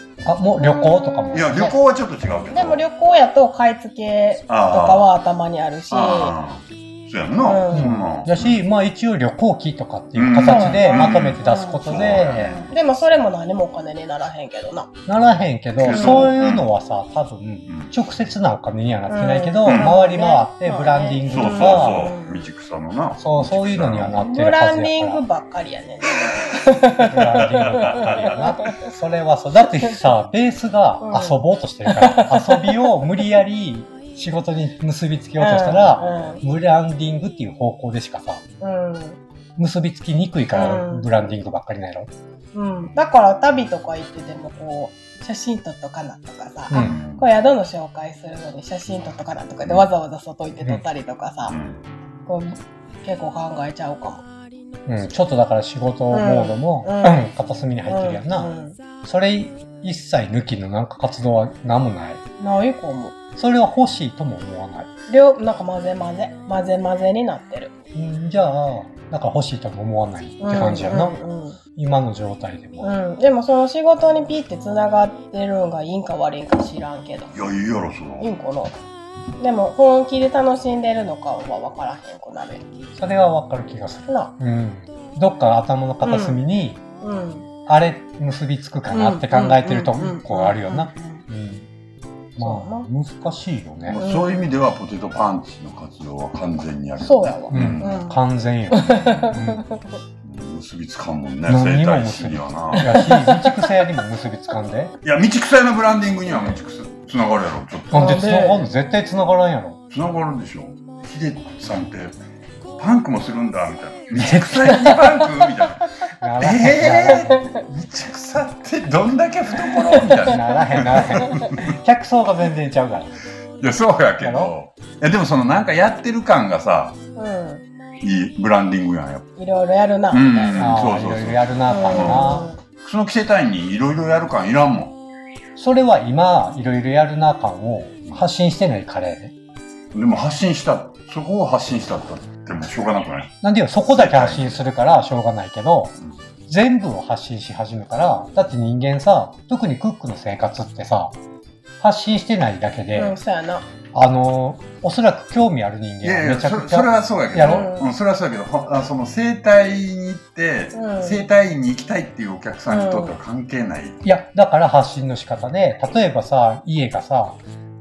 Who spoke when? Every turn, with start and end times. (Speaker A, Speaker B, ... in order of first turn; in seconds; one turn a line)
Speaker A: 0.2-1.7
Speaker B: 0.6-1.8
Speaker C: 1.3-2.8
Speaker B: 2.5-6.3
Speaker C: 4.5-5.1
Speaker C: 5.9-8.6
Speaker B: 7.4-7.9
Speaker A: 7.7-12.6
Speaker C: 10.1-12.7
Speaker B: 10.4-14.9
Speaker A: 15.1-22.1
Speaker C: 15.8-16.7
Speaker B: 15.9-16.3
Speaker C: 17.7-17.9
Speaker B: 19.1-22.5
Speaker C: 19.6-19.9
Speaker C: 21.3-24.2
Speaker A: 23.2-25.2
Speaker B: 24.1-28.9
Speaker A: 27.0-38.4
Speaker C: 27.4-28.4
Speaker B: 31.0-32.9
Speaker B: 35.4-36.4
Speaker B: 38.6-39.2
Speaker A: 39.6-42.1
Speaker B: 40.5-41.1
Speaker B: 42.5-51.6
Speaker A: 46.7-47.0
Speaker C: 46.7-47.3
Speaker C: 51.5-51.8
Speaker B: 52.2-54.2
Speaker A: 54.9-58.5
Speaker B: 56.1-57.3
Speaker B: 57.9-58.8
Speaker A: 59.0-62.2
Speaker B: 62.4-63.1
Speaker A: 63.4-64.9
Speaker B: 65.1-67.7
Speaker A: 67.9-71.2
Speaker B: 70.4-71.6
Speaker A: 71.8-72.9
Speaker B: 72.8-77.3
Speaker C: 77.3-78.3
Speaker B: 78.2-78.8
Speaker B: 79.4-82.6
Speaker A: 83.0-86.8
Speaker B: 84.1-84.3
Speaker B: 86.0-86.4
Speaker B: 87.0-87.5
Speaker A: 87.7-91.7
Speaker B: 88.9-91.2
Speaker A: 92.4-94.0
Speaker B: 92.4-92.9
Speaker C: 93.9-98.0
Speaker B: 93.9-94.5
Speaker B: 97.0-98.2
Speaker A: 97.5-99.6
Speaker B: 98.7-100.0
Speaker C: 100.2-102.9
Speaker A: 101.5-104.9
Speaker B: 102.8-103.7
Speaker C: 105.0-108.3
Speaker A: 107.9-109.8
Speaker B: 107.9-108.7
Speaker C: 109.9-112.2
Speaker C: 112.8-121.7
Speaker A: 114.1-115.0
Speaker A: 116.2-117.3
Speaker B: 117.0-117.6
Speaker A: 120.1-123.1
Speaker C: 123.6-127.0
Speaker A: 124.2-124.5
Speaker B: 127.2-127.6
Speaker C: 128.0-129.3
Speaker B: 129.4-130.6
Speaker C: 130.1-134.9
Speaker A: 130.5-132.5
Speaker B: 131.7-132.6
Speaker A: 135.6-139.3
Speaker C: 139.9-144.6
Speaker A: 143.4-146.0
Speaker A: 146.5-151.1
Speaker A: 151.8-153.2
Speaker B: 152.9-153.6
Speaker A: 153.9-157.7
Speaker C: 156.0-164.0
Speaker B: 157.4-157.9
Speaker B: 160.7-161.2
Speaker B: 162.7-163.2
Speaker A: 164.0-167.4